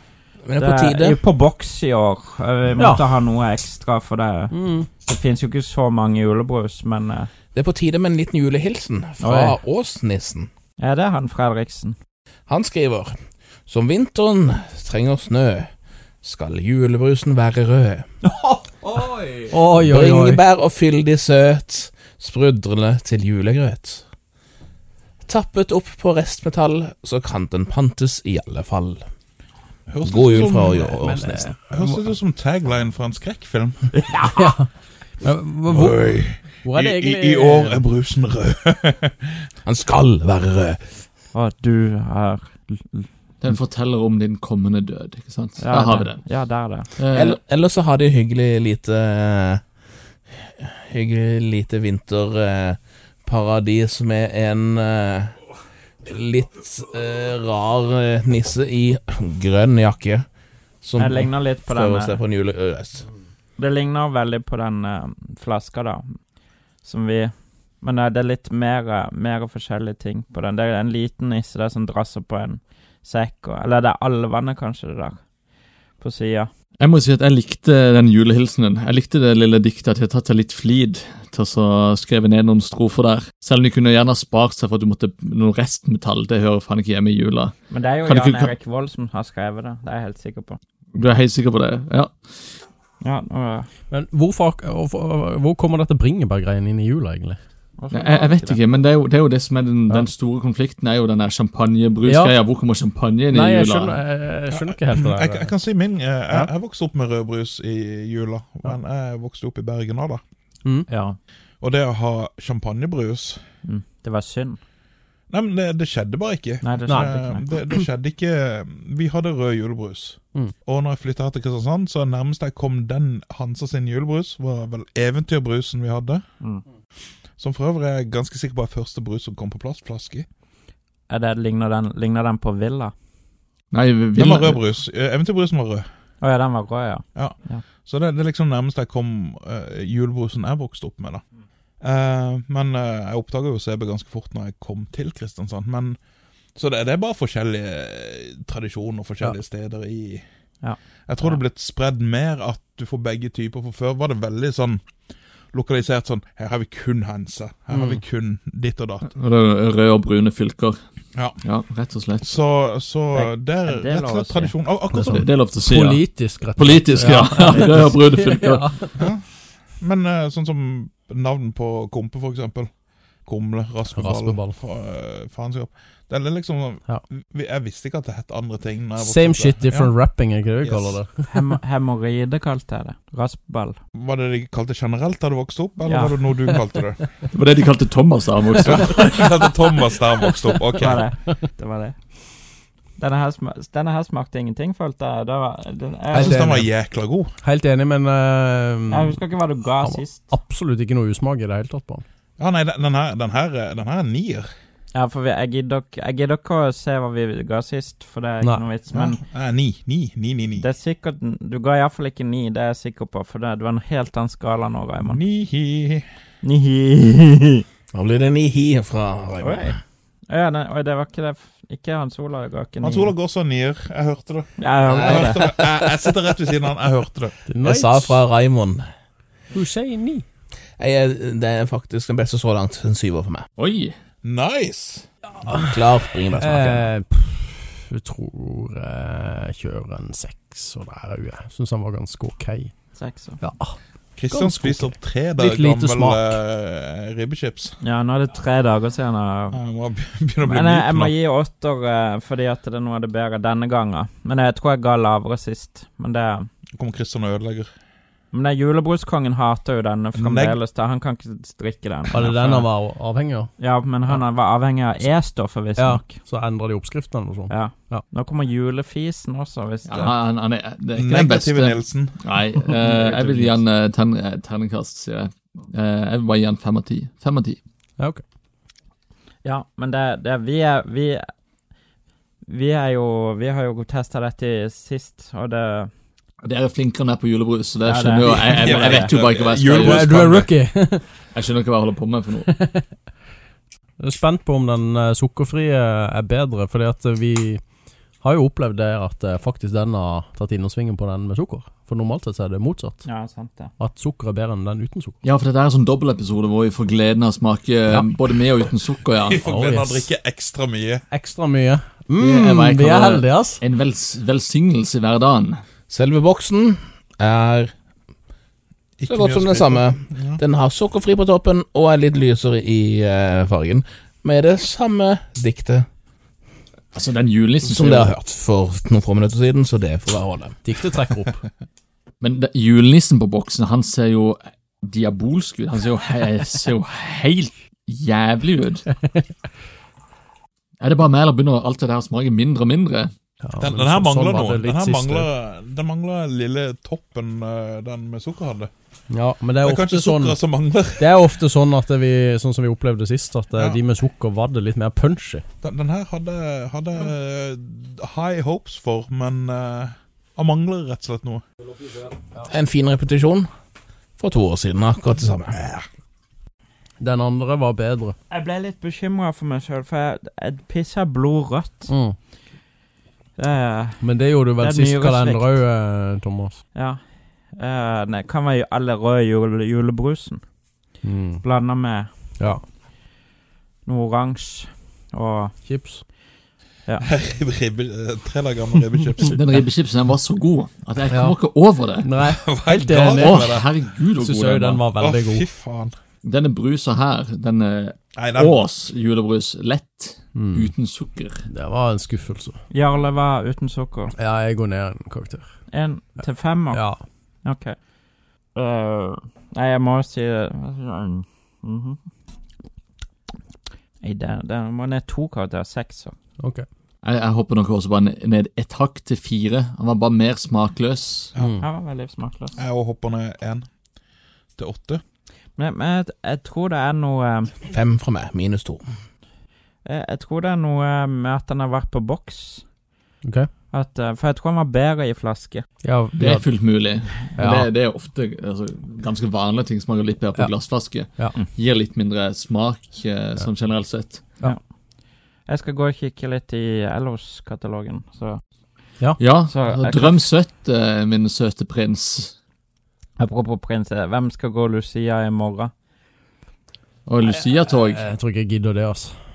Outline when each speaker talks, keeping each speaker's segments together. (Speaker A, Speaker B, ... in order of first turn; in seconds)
Speaker A: 0.4-1.2, 7.5-10.5, 12.5-15.7, 16.2-18.1, 19.7-24.0, 25.2-29.0, 30.0-31.5, 39.6-40.8, 47.1-49.6, 50.4-55.4, 56.0-60.2, 60.8-63.1, 217.9-219.8, 224.9-226.1, 227.6-228.8, 230.8-233.4, 235.5-236.9, 315.9-317.7, 319.1-325.9, 327.6-330.6, 362.4-363.5, 364.2-365.6, 427.7-428.8
Speaker B: 0.6-7.3, 9.2-9.6, 10.8-11.9, 34.0-34.5, 41.3-43.1, 45.6-46.9, 61.0-62.2, 63.6-66.2, 66.8-75.3, 76.0-76.5, 87.7-90.6, 93.0-93.7, 97.8-98.6, 113.6-114.6, 116.6-117.5, 131.1-132.9, 136.2-137.6, 150.6-151.4, 163.1-164.5, 167.4-167.9, 181.3-183.8, 185.8-186.2, 190.7-192.0, 193.0-196.4, 198.9-200.3, 204.9-209.2, 210.6-215.2, 216.4-217.6, 219.4-219.8, 220.3-223.1, 224.6-225.4, 242.9-243.4, 247.8-249.6, 250.4-256.5, 258.3-262.7, 263.6-266.2, 267.5-270.1, 279.4-281.2, 282.4-285.9, 287.8-289.1, 303.0-303.7, 368.3-371.9, 373.4-374.0, 374.6-375.6, 376.7-380.4, 381.4-382.5, 383.8-385.5, 402.7-404.1, 405.7-407.8, 408.5-412.0, 414.0-416.1, 421.6-422.6, 425.6-427.5, 429.8-432.6, 433.7-435.6, 445.4-448.4, 449.4-450.3, 453.2-455.7
Speaker C: 2.8-3.1, 4.5-4.9, 19.5-20.4, 30.4-32.0, 34.3-34.7, 35.2-37.9, 93.9-97.4, 102.0-102.4, 103.3-105.5, 157.7-158.0, 165.5-168.9, 173.9-174.6, 178.9-181.3, 188.7-189.0, 190.2-191.0, 196.1-196.7, 197.4-199.2, 199.8-202.0, 208.4-208.7, 227.5-228.2, 229.5-230.2, 236.3-243.8, 244.3-246.4, 262.1-263.5, 265.8-268.0, 272.9-273.3, 289.8-291.2, 292.4-292.8, 294.0-297.6, 298.2-303.1, 303.8-305.2, 309.4-310.1, 311.1-313.6, 330.6-331.4, 343.4-345.3, 349.1-350.4, 351.0-355.4, 367.0-368.1, 371.9-372.2, 374.0-376.6, 381.0-381.4, 382.4-382.6, 385.6-386.0, 391.1-391.4, 392.0-393.6, 394.1-395.5, 400.3-400.7, 401.5-402.6, 404.1-405.6, 406.7-407.0, 416.4-416.6, 421.4-421.6, 433.2-433.5, 435.8-436.5, 437.4-437.7, 440.3-441.4, 457.8-459.1
Speaker D: 29.9-31.0, 31.5-34.1, 35.7-39.4, 104.5-110.2, 111.6-113.4, 115.3-126.2, 127.4-130.2, 134.2-135.8, 137.2-141.2, 141.8-146.0, 146.5-150.2, 151.1-154.8, 155.5-159.1, 161.1-161.4, 162.2-165.4, 169.0-172.7, 173.2-179.9, 180.6-181.0, 183.9-187.0, 188.6-191.0, 196.1-197.3, 202.4-204.5, 208.8-210.7, 215.0-216.0, 222.8-227.3, 234.2-235.1, 244.1-247.8, 249.5-251.1, 256.8-257.7, 260.1-260.6, 270.9-272.5, 288.4-290.5, 309.2-311.0, 319.0-320.4, 343.6-348.7, 349.6-351.1, 353.5-353.8, 355.6-361.4, 365.5-365.8, 387.0-389.4, 392.2-393.7, 394.9-395.9, 398.1-398.6, 422.5-423.7, 424.6-425.0
Speaker E: 43.4-46.2, 47.0-47.4, 76.8-88.5, 90.9-92.2, 97.9-104.0, 110.9-111.2, 133.7-134.6, 159.0-160.8, 161.4-162.3, 164.9-168.7, 187.3-189.2, 233.6-233.9, 269.9-277.6, 286.4-290.1, 291.3-292.5, 305.2-309.4, 312.2-315.6, 326.9-328.1, 332.2-338.9, 340.8-343.1, 389.2-392.1, 393.1-394.8, 396.2-401.4, 417.0-421.3, 436.1-444.3, 449.2-452.4, 457.1-458.1